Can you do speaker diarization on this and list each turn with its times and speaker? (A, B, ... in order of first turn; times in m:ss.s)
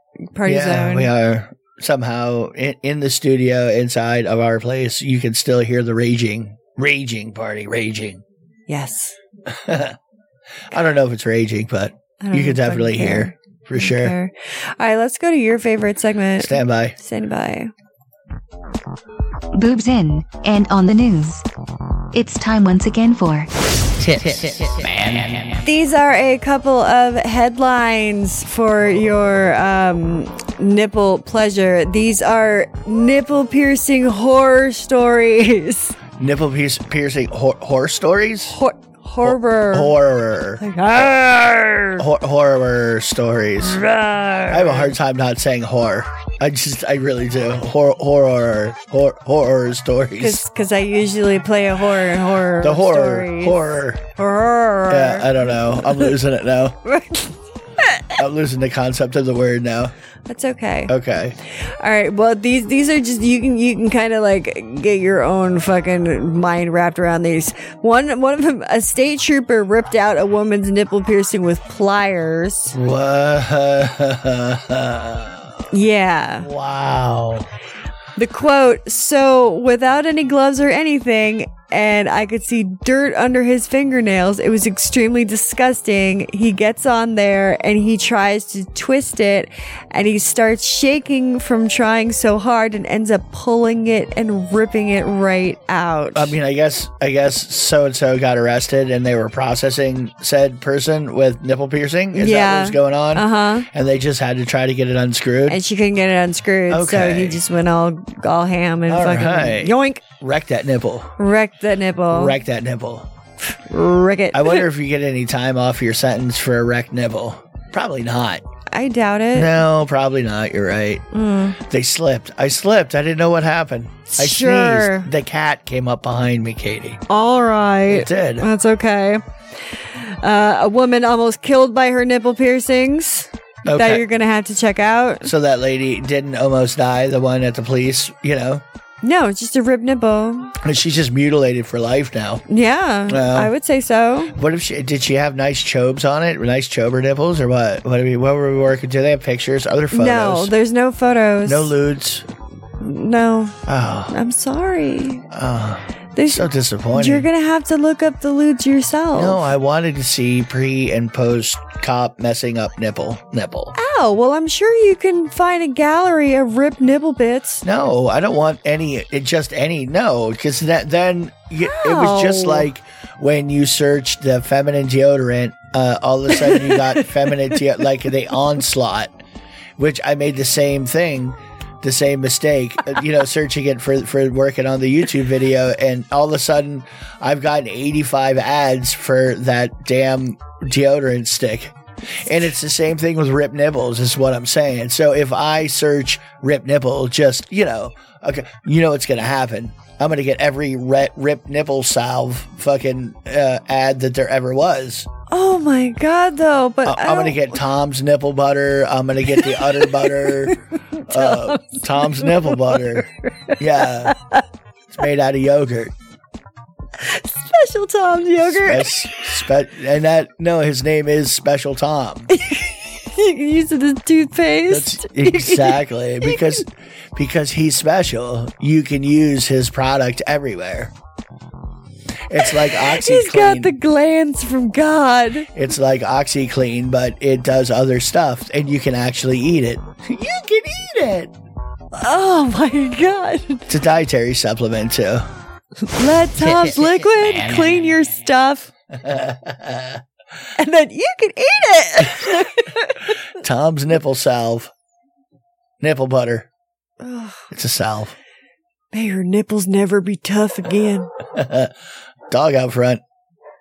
0:00.3-0:01.1 A
0:00.4-0:08.2 B
0:08.7-0:09.2 A
0:09.5-0:10.0 B
0:10.7-0:14.1 B
0:12.2-0:17.7 A
0:16.4-0:17.0 B
0:19.5-0:21.4 C
0:22.1-0:23.5 C
0:24.0-0:25.6 B
0:25.6-0:36.0 A
0:36.2-0:38.6 B
0:38.5-0:40.0 A
0:39.2-0:41.2 B
0:40.6-0:42.0 A
0:42.0-0:43.8 B
0:43.6-0:44.9 A
0:44.5-0:50.4 B
0:50.2-0:53.6 A
0:52.6-0:54.0 B
0:54.2-0:56.1 A
0:54.9-0:56.8 B
0:56.8-0:58.2 A
0:58.2-0:59.9 B
1:00.3-1:00.9 A
1:00.9-1:01.4 B
1:01.6-1:12.8 A
1:12.7-1:15.5 B
1:15.7-1:16.5 A
1:16.4-1:17.5 B
1:18.2-1:36.3 A
1:36.1-1:45.6 B
1:42.1-1:43.7 A
1:45.5-1:50.0 A
1:46.7-1:47.4 B
1:48.9-1:51.1 B
1:51.2-1:52.4 A
1:52.1-1:53.1 B
1:53.6-1:54.7 A
1:54.3-1:58.4 B
1:58.7-1:59.6 A
1:59.3-2:01.0 B
2:01.1-2:01.6 A
2:01.6-2:07.0 B
2:04.1-2:05.1 A
2:07.1-2:15.3 A
2:07.9-2:08.5 B
2:13.6-2:14.0 B
2:15.2-2:18.6 B
2:19.0-2:20.5 A
2:20.6-2:22.4 B
2:22.5-2:24.4 A
2:23.1-2:23.5 B
2:24.3-2:30.5 B
2:29.9-2:31.7 A
2:31.4-2:32.2 B
2:32.8-2:35.2 A
2:33.7-2:34.1 B
2:35.3-2:37.2 B
2:36.2-2:39.4 A
2:39.1-2:43.7 B
2:43.7-2:47.6 A
2:47.6-2:59.1 B
2:51.6-2:52.7 A
2:56.4-2:57.6 A
2:59.8-3:25.1 B
3:25.3-3:27.6 A
3:26.8-3:34.1 B
3:29.3-3:34.4 A
3:34.9-3:35.9 B
3:37.0-3:39.1 A
3:38.4-3:42.3 B
3:42.3-3:46.6 A
3:44.7-3:50.9 B
3:52.3-3:53.7 B
3:52.4-3:55.5 A
3:55.5-4:01.3 B
4:01.9-4:03.7 A
4:03.7-4:05.2 B
4:05.9-4:08.7 A
4:06.4-4:07.6 B
4:08.9-4:10.0 B
4:10.6-4:13.1 A
4:13.4-4:14.7 B
4:15.8-4:16.5 B
4:17.0-4:17.4 A
4:17.5-4:18.1 B
4:18.9-4:21.1 A
4:21.3-4:21.7 B
4:22.3-4:23.0 B